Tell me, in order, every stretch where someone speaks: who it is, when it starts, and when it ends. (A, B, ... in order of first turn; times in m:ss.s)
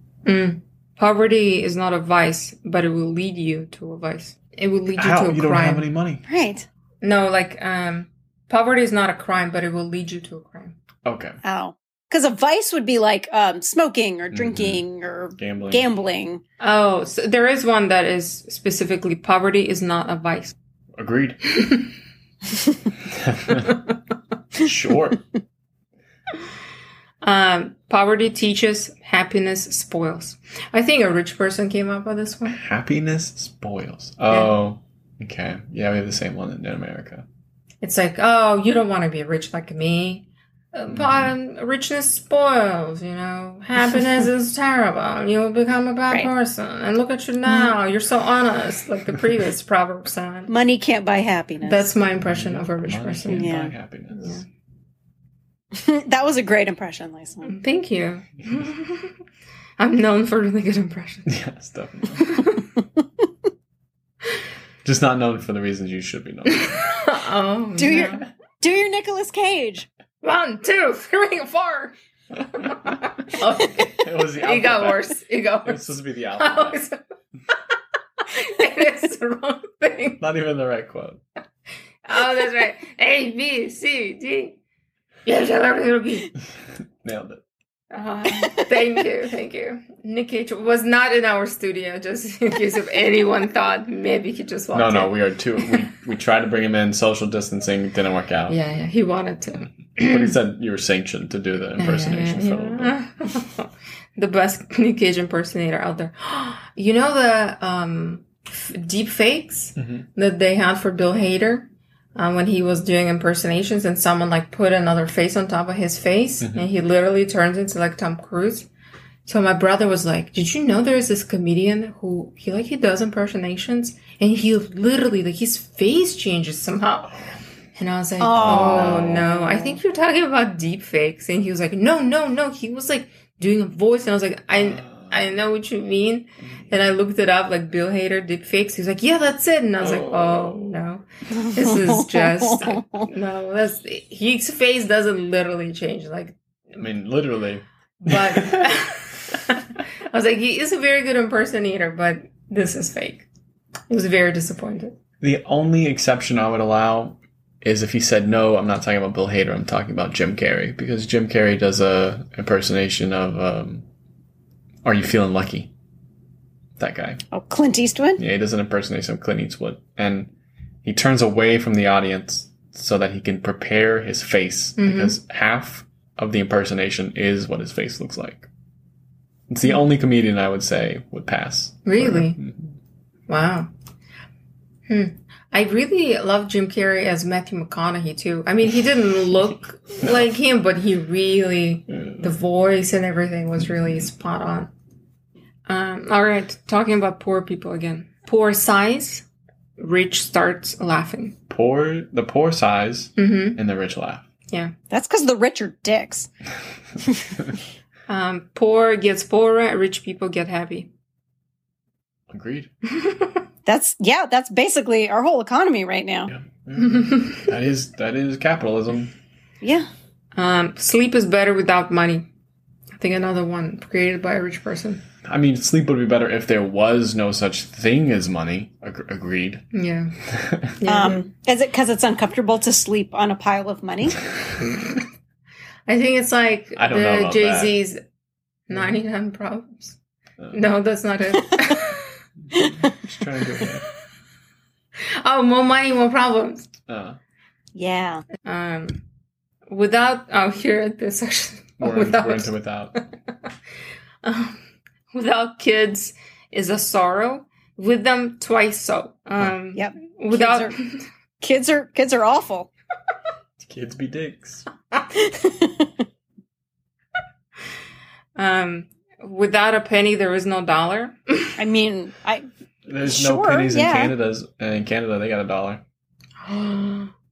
0:00.2-0:05.8 A
0:05.0-0:06.2 B
0:06.3-0:06.7 C
0:07.0-0:10.8 A
0:11.0-0:11.4 B
0:11.4-0:16.4 C
0:14.3-0:14.8 B
0:15.4-0:15.9 B
0:16.6-0:20.6 A
0:21.0-0:21.4 B
0:23.1-0:23.8 B
0:24.6-0:25.2 B
0:27.2-0:32.6 A
0:32.5-0:37.3 B
0:34.3-0:34.6 A
0:37.8-0:50.5 A
0:40.9-0:41.3 B
0:47.5-0:47.7 C
0:50.5-0:51.9 C
0:51.6-0:53.5 A
0:52.2-0:54.4 B
0:53.3-0:53.7 C
0:54.1-0:54.4 A
0:55.7-0:57.5 C
0:57.4-0:59.1 A
0:59.8-1:01.3 A
1:01.3-1:02.3 B
1:02.3-1:02.6 A
1:04.8-1:06.9 B
1:06.5-1:08.3 A
1:07.8-1:09.9 C
1:10.2-1:12.0 A
1:12.5-1:15.8 A
1:13.9-1:16.8 B
1:16.4-1:17.0 A
1:18.3-1:20.2 A
1:20.2-1:21.2 B
1:22.1-1:24.6 A
1:25.2-1:26.3 A
1:27.0-1:27.4 B
1:27.9-1:35.1 A
1:34.7-1:38.6 B
1:38.5-1:40.3 A
1:40.0-1:43.0 B
1:41.8-1:58.7 A
1:49.8-1:50.1 B
1:56.4-1:56.7 B
1:59.2-2:07.2 A
2:07.8-2:26.4 A
2:08.2-2:09.8 C
2:08.4-2:09.3 B
2:14.6-2:15.4 B
2:19.8-2:20.7 B
2:21.3-2:23.1 C
2:26.8-2:28.6 B
2:28.0-2:33.3 A
2:33.9-2:35.0 A
2:35.2-2:43.9 B
2:44.8-2:45.7 B
2:46.8-2:47.2 B
2:47.3-2:48.2 C
2:48.2-2:50.3 B
2:50.8-2:58.5 B
2:54.8-2:55.2 A
2:59.5-3:02.7 B
3:01.8-3:02.4 A
3:03.3-3:03.7 A
3:04.9-3:14.7 A
3:10.0-3:10.3 B
3:15.7-3:19.2 A
3:19.8-3:21.4 A
3:21.5-3:24.3 B
3:23.2-3:23.6 A
3:24.5-3:24.7 A
3:24.9-3:26.3 C
3:27.1-3:27.3 C
3:28.1-3:30.9 A
3:32.3-3:32.7 B
3:33.0-3:33.3 A
3:33.7-3:36.3 C
3:36.3-3:39.1 B
3:37.1-3:37.4 A
3:39.6-3:39.9 C
3:40.4-3:42.3 A
3:43.0-3:45.0 A
3:45.2-3:49.7 B
3:49.7-3:50.1 A
3:50.3-3:50.8 B
3:50.8-3:51.2 A
3:50.9-3:54.2 C
3:55.9-3:58.0 A
3:56.8-3:57.8 B
3:58.7-4:00.0 A
3:58.7-3:59.0 B
4:00.5-4:02.1 A
4:02.5-4:03.8 B
4:02.5-4:02.9 C
4:05.2-4:06.7 A
4:06.9-4:07.2 B
4:07.8-4:08.2 C
4:08.4-4:09.0 A
4:09.7-4:12.6 A
4:11.8-4:12.9 B
4:14.2-4:14.6 A
4:15.1-4:21.0 A
4:19.8-4:20.8 C
4:21.4-4:22.7 C
4:23.6-4:24.7 B
4:25.1-4:25.9 C
4:28.4-4:31.6 A
4:31.6-4:32.5 C
4:32.9-4:35.8 B
4:33.0-4:34.1 C
4:36.4-4:37.1 A